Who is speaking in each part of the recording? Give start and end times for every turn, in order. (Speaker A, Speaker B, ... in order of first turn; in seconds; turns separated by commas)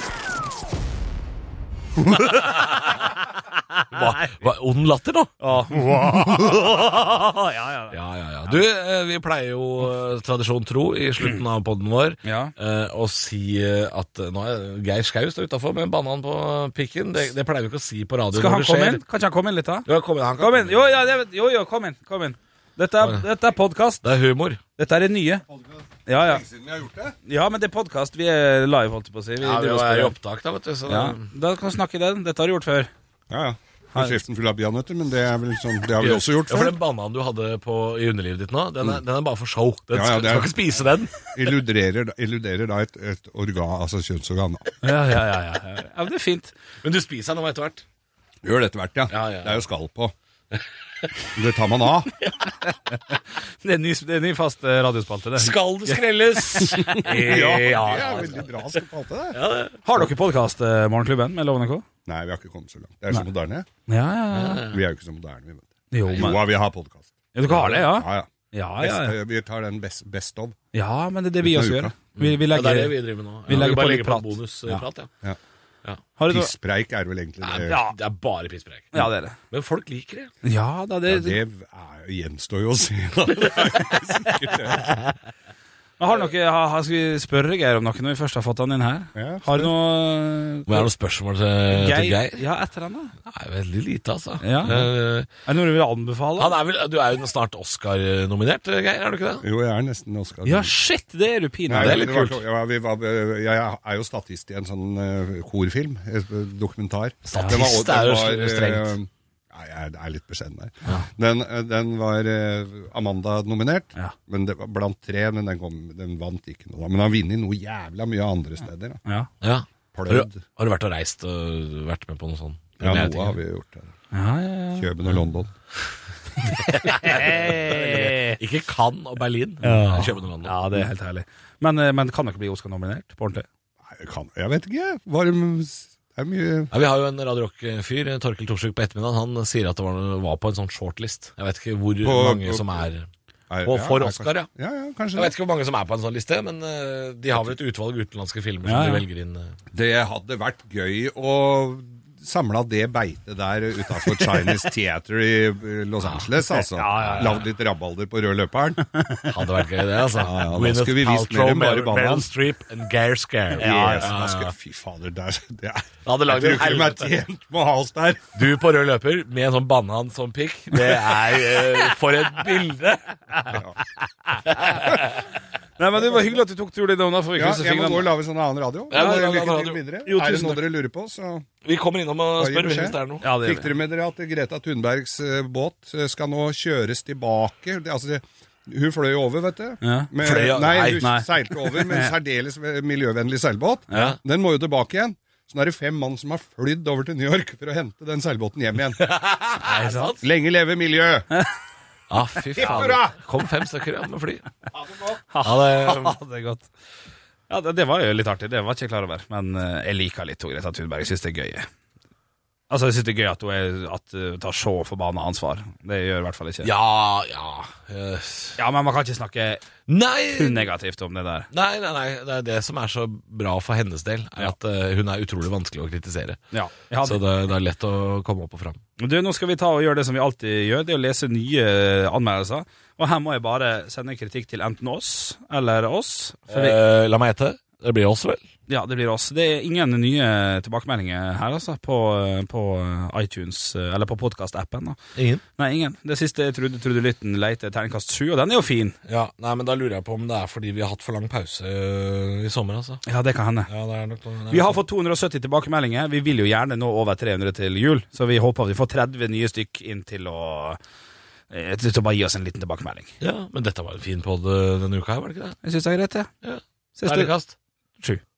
Speaker A: 2.1-4.5, Speaker B: 2.2-3.1, Speaker B: 3.9-5.3, Speaker A: 5.4-8.6, Speaker B: 7.9-19.0, Speaker A: 12.2-12.5, Speaker A: 18.3-19.9, Speaker B: 19.9-20.9, Speaker A: 20.4-24.0, Speaker B: 23.0-23.3, Speaker B: 24.0-24.6, Speaker A: 24.8-25.4, Speaker C: 25.5-27.1, Speaker A: 26.1-26.4, Speaker A: 27.3-30.2, Speaker B: 29.4-31.3, Speaker A: 30.9-32.9, Speaker C: 33.3-36.8, Speaker B: 36.0-41.1, Speaker C: 39.9-40.5, Speaker C: 41.3-44.7, Speaker A: 44.8-46.5, Speaker B: 46.8-47.8, Speaker C: 48.4-50.1, Speaker B: 49.1-49.6, Speaker C: 51.4-52.1, Speaker A: 52.6-58.4, Speaker B: 55.4-58.8, Speaker C: 56.9-59.4, Speaker B: 59.3-59.8, Speaker A: 59.8-61.9, Speaker C: 62.1-63.7, Speaker A: 63.9-64.7, Speaker B: 64.3-64.8, Speaker C: 64.6-68.3, Speaker A: 65.9-66.5, Speaker A: 67.3-69.1, Speaker C: 68.8-70.6, Speaker A: 70.7-74.8, Speaker C: 71.4-72.0, Speaker B: 72.2-75.1, Speaker A: 76.2-76.5, Speaker C: 76.2-77.8, Speaker B: 77.4-80.3, Speaker A: 77.7-78.0, Speaker A: 78.9-79.4, Speaker A: 80.4-81.4, Speaker C: 81.1-84.9, Speaker A: 86.0-90.9, Speaker C: 89.1-89.7, Speaker B: 90.7-92.4, Speaker A: 91.7-93.1, Speaker B: 93.3-95.3, Speaker A: 94.4-96.5, Speaker B: 96.4-99.5, Speaker C: 99.4-100.7, Speaker A: 100.5-102.4, Speaker C: 101.7-119.0, Speaker B: 101.8-102.4, Speaker B: 107.3-109.0, Speaker A: 107.3-107.6, Speaker B: 119.4-123.4, Speaker C: 119.9-120.5, Speaker C: 122.8-123.9, Speaker A: 124.1-124.9, Speaker C: 124.7-125.5, Speaker A: 126.5-128.4, Speaker B: 126.6-130.6, Speaker A: 129.6-133.5, Speaker C: 133.9-136.7, Speaker B: 136.7-143.1, Speaker C: 142.0-142.8, Speaker C: 143.5-145.3, Speaker B: 143.6-144.5, Speaker B: 145.1-149.6, Speaker A: 148.6-149.0, Speaker C: 149.7-159.0, Speaker A: 156.6-157.5, Speaker B: 157.0-157.4, Speaker B: 159.3-164.5, Speaker C: 160.2-162.3, Speaker A: 163.6-164.1, Speaker C: 163.6-168.3, Speaker B: 166.1-167.1, Speaker B: 168.3-173.6, Speaker A: 173.4-174.4, Speaker B: 174.5-175.2, Speaker A: 175.8-178.1, Speaker C: 176.0-176.4, Speaker C: 177.3-181.5, Speaker B: 178.9-179.8, Speaker A: 180.1-180.6, Speaker B: 181.6-183.3, Speaker C: 182.4-199.0, Speaker A: 183.2-183.7, Speaker A: 189.8-190.1, Speaker B: 190.2-191.1, Speaker A: 191.0-192.1, Speaker A: 193.9-194.2, Speaker B: 199.0-200.2, Speaker A: 199.6-200.2, Speaker C: 200.2-201.3, Speaker B: 202.1-204.4, Speaker A: 202.6-203.1, Speaker C: 202.6-203.1, Speaker A: 205.0-206.7, Speaker B: 205.4-206.2, Speaker A: 207.5-211.7, Speaker A: 212.7-216.7, Speaker B: 216.6-218.6, Speaker A: 218.6-219.6, Speaker B: 219.9-220.7, Speaker A: 220.3-221.5, Speaker B: 221.5-226.4, Speaker A: 226.5-227.2, Speaker B: 227.0-228.8, Speaker A: 229.0-236.8, Speaker B: 236.5-238.4, Speaker A: 238.7-245.0, Speaker B: 245.2-245.4, Speaker A: 245.6-249.0, Speaker B: 249.1-253.0, Speaker A: 253.1-253.7, Speaker B: 253.7-254.8, Speaker A: 254.5-260.8, Speaker A: 261.5-263.1, Speaker B: 263.2-265.6, Speaker A: 265.6-266.3, Speaker B: 266.4-267.6, Speaker A: 266.9-267.3